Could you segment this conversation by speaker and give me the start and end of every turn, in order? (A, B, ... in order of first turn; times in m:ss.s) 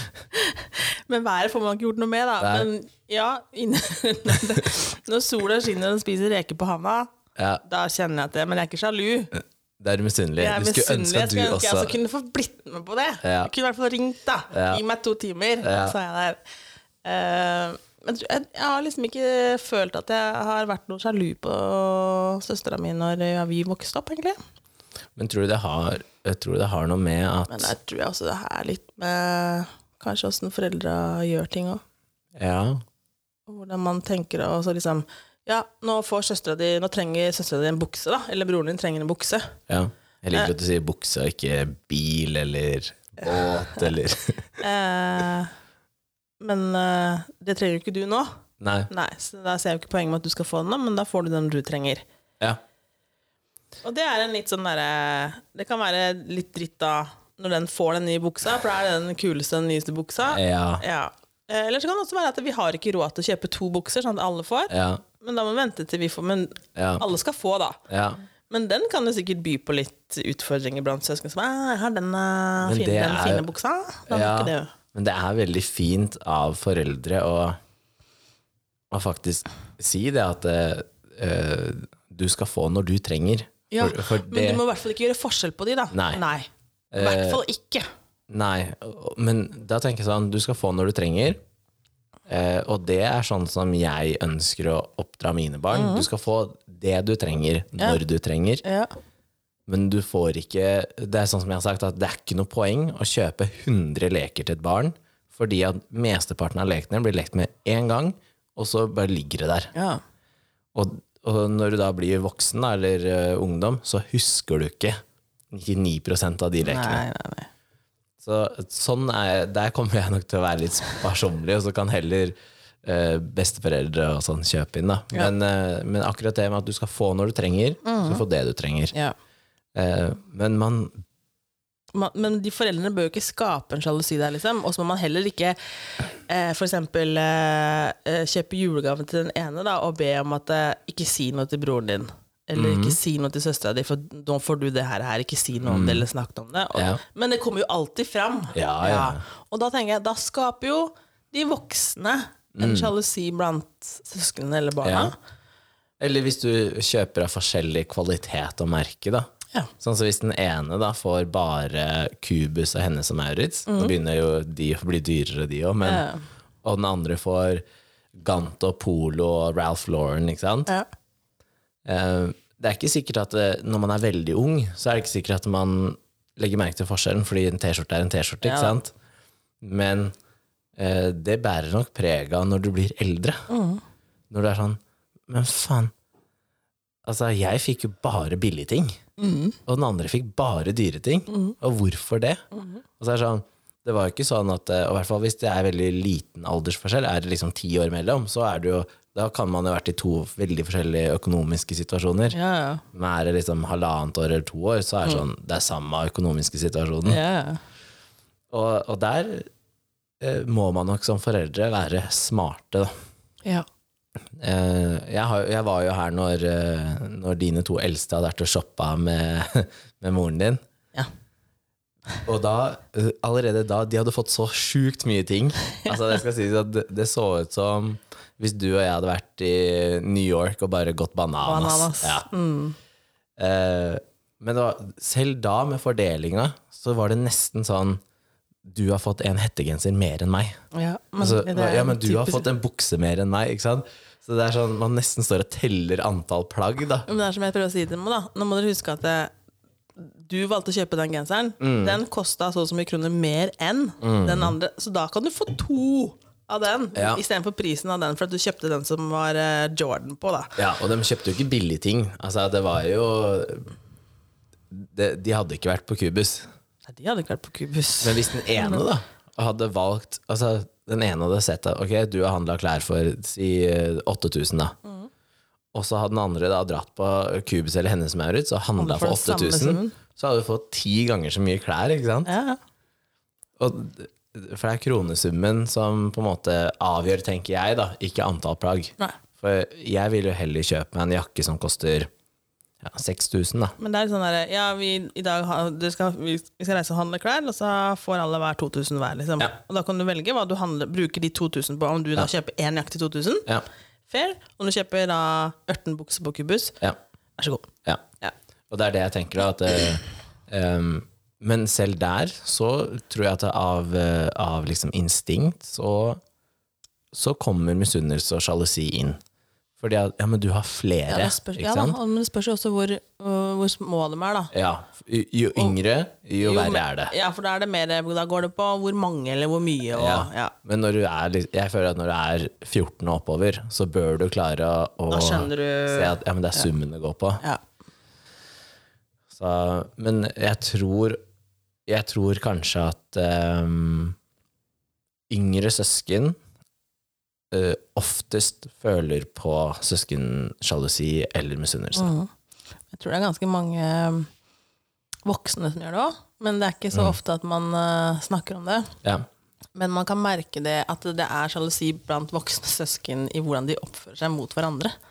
0:00.3-0:07.1 A
0:02.4-0:02.7 B
0:07.4-0:07.6 B
0:07.6-0:09.3 A
0:09.8-0:12.0 B
0:10.4-0:16.4 A
0:13.2-0:13.5 B
0:14.5-0:14.8 B
0:15.6-0:15.9 B
0:17.0-0:24.4 A
0:25.2-0:27.7 B
0:27.5-0:31.8 A
0:32.3-0:32.8 B
0:33.5-0:39.5 A
0:39.7-0:44.6 B
0:44.6-0:45.5 A
0:46.4-0:48.3 A
0:48.6-0:48.9 B
0:48.9-0:52.0 A
0:53.8-1:07.8 A
1:00.2-1:00.8 B
1:04.7-1:05.0 B
1:06.8-1:07.0 B
1:07.9-1:08.2 B
1:08.5-1:14.7 A
1:12.6-1:13.5 B
1:14.1-1:17.6 B
1:18.9-1:24.6 B
1:23.7-1:27.8 A
1:25.9-1:26.2 B
1:26.9-1:27.4 B
1:28.3-1:31.4 B
1:32.3-1:38.6 B
1:35.7-1:36.1 A
1:38.6-1:38.9 A
1:39.7-1:49.7 B
1:49.7-1:50.0 A
1:50.7-1:55.0 B
1:55.5-1:57.0 B
1:56.6-1:57.5 A
1:58.2-2:08.9 B
2:07.8-2:08.2 A
2:09.7-2:11.0 B
2:11.9-2:35.1 A
2:22.5-2:23.0 B
2:25.6-2:26.0 B
2:26.7-2:27.0 B
2:28.5-2:29.2 B
2:32.5-2:32.9 B
2:34.8-2:35.1 B
2:36.0-2:39.3 B
2:39.8-2:46.0 B
2:43.7-2:43.9 A
2:45.8-2:46.2 A
2:46.6-2:47.6 B
2:48.2-2:50.7 B
2:51.8-2:58.9 B
2:58.4-2:58.8 A
2:59.6-3:00.1 B
3:00.8-3:03.4 B
3:03.5-3:03.8 A
3:04.3-3:05.9 B
3:07.0-3:09.0 B
3:09.2-3:09.6 A
3:09.7-3:12.4 B
3:12.5-3:12.8 A
3:13.0-3:22.4 B
3:22.3-3:22.8 A
3:22.9-3:27.2 B
3:27.0-3:27.6 A
3:28.5-3:29.5 B
3:30.2-3:32.9 B
3:34.3-3:40.6 B
3:42.2-3:52.2 B
3:51.4-3:52.8 A
3:53.4-3:58.0 B
3:58.6-4:00.6 B
4:00.7-4:02.5 A
4:01.2-4:07.1 B
4:07.1-4:09.3 A
4:10.0-4:20.6 A
4:11.6-4:12.0 B
4:14.0-4:14.6 B
4:16.9-4:17.2 B
4:20.6-4:23.7 B
4:24.7-4:26.5 B
4:26.9-4:28.8 A
4:28.0-4:34.8 B
4:35.7-4:42.3 B
4:38.8-4:40.0 A
4:42.2-4:42.6 A
4:43.6-4:52.1 B
4:52.8-4:53.8 B
4:53.8-5:03.5 A
5:04.1-5:06.8 A
5:07.4-5:07.7 A
5:08.7-5:16.2 B
5:17.1-5:19.2 B
5:19.8-5:22.0 B
5:21.1-5:24.5 A
5:24.5-5:27.1 B
5:26.4-5:30.5 A
5:29.9-5:37.4 B
5:35.1-5:36.6 A
5:39.3-5:41.2 B
5:41.9-5:44.2 B
5:45.3-5:46.4 B
5:47.5-5:52.1 B
5:51.9-5:52.3 A
5:52.9-5:54.3 A
5:55.2-5:58.9 A
5:59.7-6:04.9 A